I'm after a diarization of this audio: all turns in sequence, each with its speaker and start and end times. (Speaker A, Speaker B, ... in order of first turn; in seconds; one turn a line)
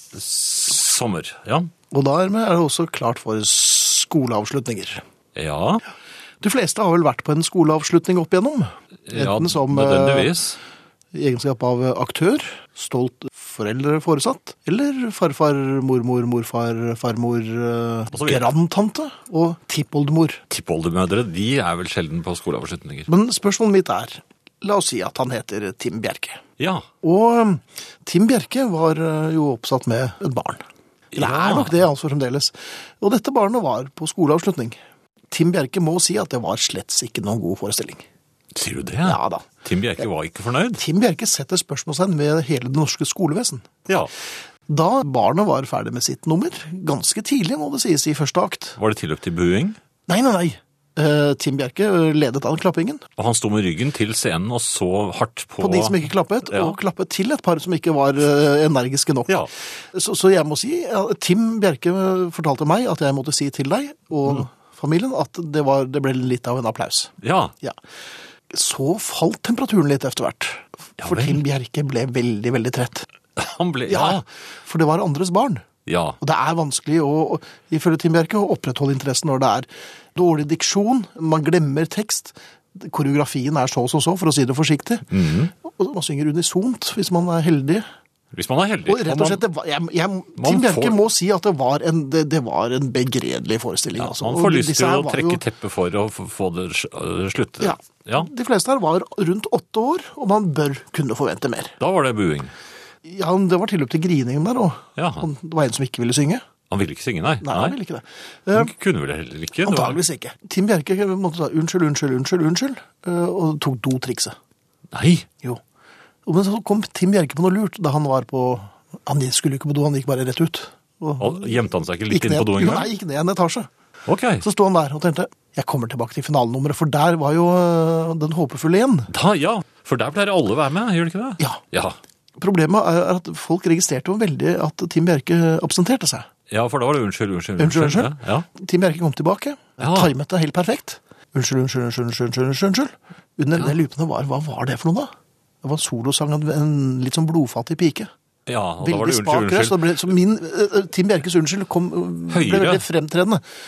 Speaker A: 0.1-1.7
Speaker B: 1.9-5.0
Speaker A: 5.3-5.8
Speaker B: 6.4-10.3
Speaker A: 9.1-10.6
Speaker B: 11.1-20.4
Speaker A: 18.1-18.5
Speaker A: 20.5-23.1
Speaker B: 23.1-26.4
Speaker A: 26.6-26.9
Speaker B: 27.0-30.6
Speaker A: 31.1-31.8
Speaker B: 31.2-34.8
Speaker B: 35.3-38.0
Speaker A: 38.5-40.8
Speaker B: 39.0-39.5
Speaker B: 40.8-43.7
Speaker B: 44.7-48.8
Speaker A: 48.8-49.8
Speaker B: 50.1-53.0
Speaker A: 53.2-56.8
Speaker B: 55.6-59.3
Speaker B: 59.9-67.8
Speaker A: 67.2-67.5
Speaker B: 68.5-73.1
Speaker A: 71.0-71.4
Speaker A: 73.4-74.2
Speaker B: 73.9-75.7
Speaker A: 75.9-76.2
Speaker B: 76.2-87.8
Speaker A: 85.1-85.5
Speaker A: 88.3-89.4
Speaker B: 88.9-95.4
Speaker A: 90.4-91.0
Speaker A: 94.0-98.3
Speaker B: 97.6-101.8
Speaker A: 101.8-102.5
Speaker B: 103.0-106.4
Speaker A: 105.0-105.3
Speaker A: 106.7-107.8
Speaker B: 107.4-108.7
Speaker A: 108.5-110.0
Speaker B: 109.6-114.4
Speaker A: 114.9-115.3
Speaker B: 116.2-121.6
Speaker A: 121.2-122.9
Speaker B: 122.1-123.7
Speaker A: 124.1-124.5
Speaker B: 124.4-129.1
Speaker A: 129.1-132.0
Speaker B: 132.4-136.3
Speaker A: 136.5-138.5
Speaker B: 137.6-145.1
Speaker A: 139.8-140.1
Speaker B: 145.6-148.1
Speaker A: 148.5-150.1
Speaker B: 148.8-153.4
Speaker A: 152.3-152.8